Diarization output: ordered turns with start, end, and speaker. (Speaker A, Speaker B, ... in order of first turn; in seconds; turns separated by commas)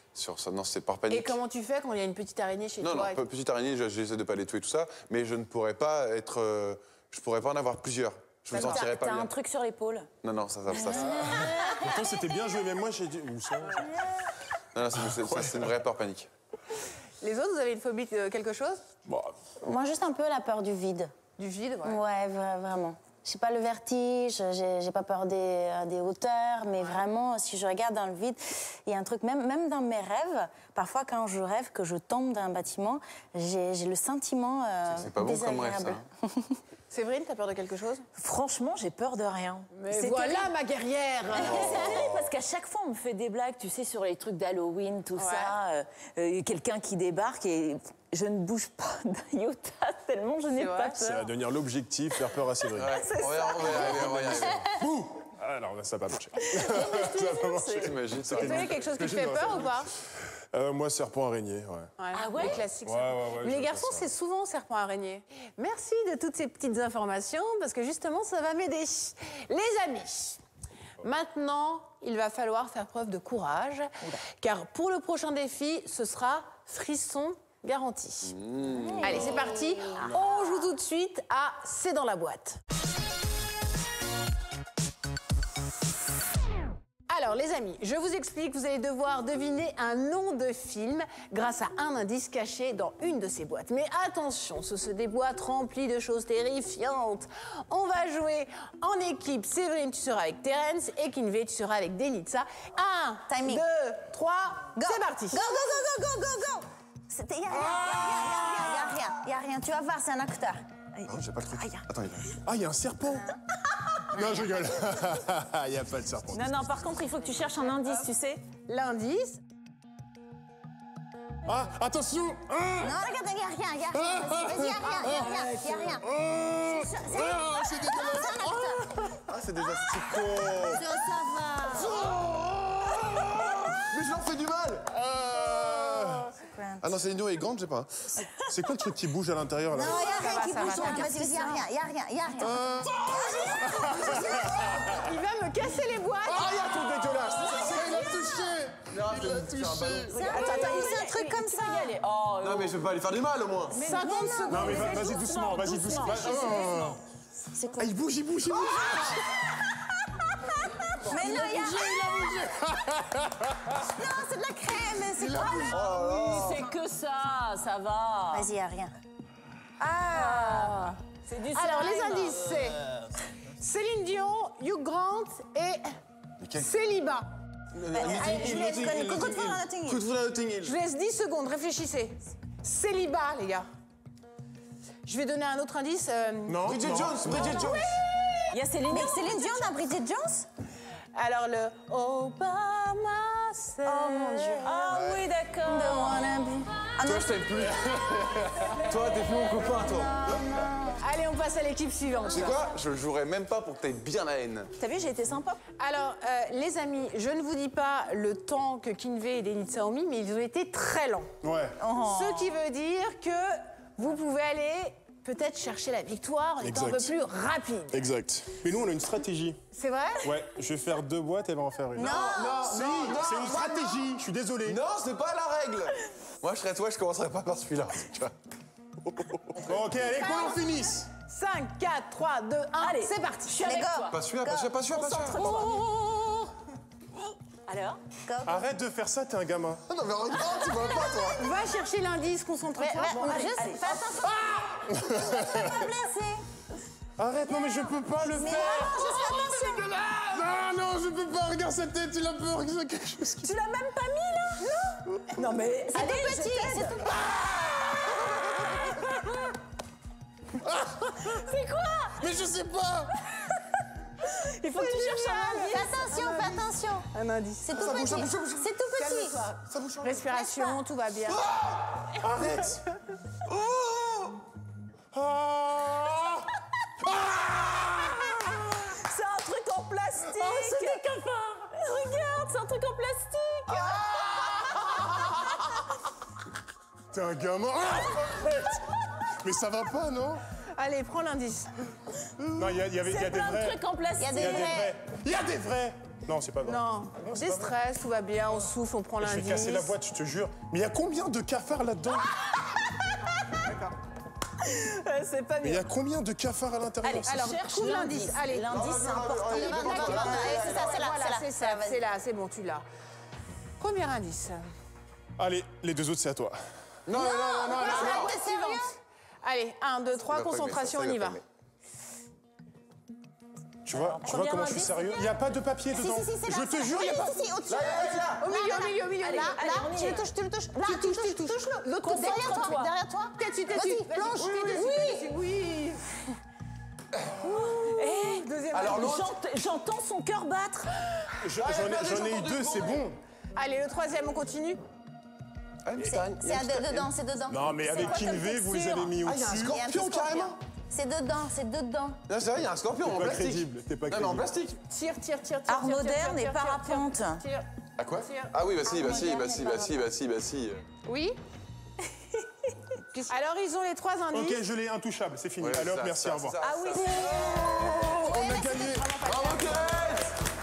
Speaker A: 0.1-1.4, Speaker B: 1.1-3.2, Speaker A: 2.8-9.3, Speaker B: 8.5-8.8, Speaker C: 8.5-10.1, Speaker A: 10.2-11.2, Speaker D: 10.9-11.7, Speaker E: 11.0-14.1, Speaker C: 11.2-11.8, Speaker A: 14.7-16.3, Speaker E: 14.9-15.7, Speaker B: 17.2-18.8, Speaker E: 19.1-19.3, Speaker D: 19.6-21.1, Speaker B: 21.4-22.0, Speaker D: 21.8-36.6, Speaker A: 34.9-36.0, Speaker B: 36.9-38.0, Speaker C: 38.2-40.5, Speaker B: 39.7-42.0, Speaker C: 41.3-51.3, Speaker A: 41.4-42.0, Speaker B: 45.1-45.5, Speaker B: 50.5-51.0, Speaker E: 51.0-53.0, Speaker A: 52.7-54.7, Speaker C: 52.9-54.7, Speaker E: 53.6-59.8, Speaker C: 56.4-58.5, Speaker A: 57.7-58.8, Speaker B: 58.3-59.9, Speaker E: 60.5-61.9, Speaker B: 62.0-70.4, Speaker C: 62.1-62.6, Speaker E: 62.8-64.1, Speaker B: 71.0-78.3, Speaker A: 78.3-79.3, Speaker D: 78.7-80.2, Speaker B: 79.0-82.6, Speaker B: 87.1-105.4, Speaker D: 103.3-103.6, Speaker D: 104.8-110.6, Speaker E: 107.8-108.7, Speaker A: 111.1-112.4, Speaker C: 111.6-111.8, Speaker E: 112.4-113.3, Speaker D: 113.1-113.4, Speaker E: 114.1-116.6, Speaker D: 114.1-114.5, Speaker C: 116.3-118.4, Speaker B: 118.7-119.4, Speaker E: 121.5-122.9, Speaker D: 122.8-126.0, Speaker E: 123.9-125.4, Speaker E: 126.0-129.1, Speaker D: 126.6-128.9, Speaker A: 129.3-130.8, Speaker D: 130.5-132.1, Speaker A: 131.7-134.9, Speaker E: 134.9-136.4, Speaker D: 136.4-136.9, Speaker A: 136.8-138.1, Speaker E: 138.4-141.0, Speaker D: 139.7-144.6, Speaker B: 139.8-141.6, Speaker E: 142.4-145.1, Speaker B: 144.0-146.7, Speaker E: 146.2-150.4, Speaker A: 146.5-147.9, Speaker D: 147.6-148.3, Speaker C: 147.8-148.1, Speaker A: 148.9-150.4, Speaker D: 150.1-151.9, Speaker C: 150.1-152.8, Speaker A: 152.4-153.8, Speaker B: 153.7-155.3, Speaker C: 153.7-157.0, Speaker D: 153.9-155.2, Speaker E: 154.5-157.0, Speaker D: 156.1-156.4, Speaker D: 157.5-158.0, Speaker E: 157.8-159.2, Speaker D: 158.5-162.7, Speaker E: 160.9-163.8, Speaker D: 163.8-165.8, Speaker E: 165.2-166.0, Speaker A: 165.7-166.7, Speaker C: 165.9-168.4, Speaker D: 168.3-168.9, Speaker B: 169.8-172.8, Speaker C: 170.1-170.7, Speaker C: 171.2-172.5, Speaker B: 173.5-175.9, Speaker A: 176.4-176.7, Speaker B: 176.6-177.3, Speaker A: 177.8-180.7, Speaker D: 177.9-180.0, Speaker B: 180.6-183.7, Speaker B: 185.0-186.6, Speaker E: 186.5-187.6, Speaker A: 186.6-188.0, Speaker B: 187.3-188.5, Speaker C: 188.5-189.4, Speaker D: 188.9-190.5, Speaker B: 191.1-194.7, Speaker D: 193.8-195.0, Speaker C: 194.6-196.3, Speaker A: 194.9-195.2, Speaker D: 195.6-197.4, Speaker A: 197.0-200.6, Speaker D: 199.9-201.0, Speaker B: 201.0-202.6, Speaker A: 202.3-204.7, Speaker C: 204.8-205.6, Speaker B: 205.8-211.3, Speaker E: 211.4-211.8, Speaker D: 211.8-212.6, Speaker B: 212.0-218.0, Speaker E: 216.6-217.1, Speaker E: 217.9-219.6, Speaker B: 219.7-220.3, Speaker E: 220.2-224.8, Speaker D: 221.9-222.7, Speaker A: 222.0-224.1, Speaker A: 224.6-228.3, Speaker A: 229.1-229.7, Speaker E: 229.6-231.1, Speaker B: 230.1-230.6, Speaker B: 231.2-233.7, Speaker C: 232.8-234.2, Speaker D: 233.5-234.8, Speaker A: 234.1-235.7, Speaker C: 234.9-236.5, Speaker C: 237.7-238.0, Speaker D: 238.2-238.6, Speaker E: 238.4-239.8, Speaker A: 239.9-241.4, Speaker D: 240.5-241.7, Speaker B: 241.1-244.0, Speaker D: 242.8-246.4, Speaker C: 243.0-244.0, Speaker E: 244.8-245.8, Speaker E: 247.2-249.3, Speaker D: 247.6-249.9, Speaker C: 248.6-248.9, Speaker E: 250.1-253.5, Speaker C: 253.4-254.7, Speaker C: 255.3-259.4, Speaker D: 255.9-257.3, Speaker E: 260.6-261.0, Speaker C: 261.0-262.4, Speaker E: 262.2-263.2, Speaker C: 264.2-266.0, Speaker B: 264.7-268.1, Speaker D: 265.6-267.1, Speaker D: 267.6-269.5, Speaker A: 267.8-268.7, Speaker E: 267.9-268.4, Speaker B: 268.9-271.4, Speaker E: 269.7-270.1, Speaker D: 270.2-270.8, Speaker A: 271.3-272.1, Speaker E: 272.2-272.8, Speaker A: 273.4-274.4, Speaker E: 275.1-276.4, Speaker E: 277.0-278.5, Speaker C: 278.8-284.7, Speaker E: 280.4-280.9, Speaker E: 287.1-288.8, Speaker E: 289.4-290.4, Speaker B: 290.8-291.7, Speaker E: 292.4-297.7, Speaker C: 293.0-294.9, Speaker D: 294.2-294.9, Speaker B: 296.6-299.9, Speaker E: 299.2-302.3, Speaker B: 303.5-303.8, Speaker C: 304.6-305.8, Speaker E: 305.6-307.4, Speaker C: 307.0-309.0, Speaker B: 307.2-308.7, Speaker D: 308.5-312.0, Speaker A: 308.7-311.0, Speaker B: 309.5-312.8, Speaker B: 313.8-314.6, Speaker E: 315.4-316.6, Speaker A: 317.1-318.3, Speaker D: 317.1-318.9, Speaker B: 317.7-321.4, Speaker A: 320.3-321.4, Speaker E: 323.9-327.3, Speaker C: 323.9-325.2, Speaker D: 325.9-335.3, Speaker A: 327.7-328.4, Speaker B: 328.4-330.2, Speaker C: 329.2-330.2, Speaker B: 330.8-332.7, Speaker C: 332.0-332.9, Speaker B: 333.4-336.2, Speaker C: 337.4-340.9, Speaker B: 337.6-339.1, Speaker A: 338.7-339.3, Speaker E: 341.4-343.2, Speaker A: 341.4-343.1, Speaker B: 343.6-344.8, Speaker A: 345.8-347.1, Speaker D: 346.0-348.4, Speaker E: 347.5-349.8, Speaker B: 347.9-349.1, Speaker A: 349.2-350.6, Speaker D: 349.6-352.2, Speaker A: 352.3-354.8, Speaker E: 353.0-354.5, Speaker B: 354.9-357.6, Speaker D: 355.7-357.4, Speaker A: 358.0-360.9, Speaker B: 358.2-358.5, Speaker D: 358.9-360.1, Speaker B: 361.0-361.4, Speaker B: 363.1-364.6, Speaker E: 364.3-366.6, Speaker A: 365.6-368.1, Speaker B: 366.6-370.1, Speaker C: 367.1-368.3, Speaker D: 367.2-367.7, Speaker E: 368.1-369.2, Speaker A: 369.2-370.3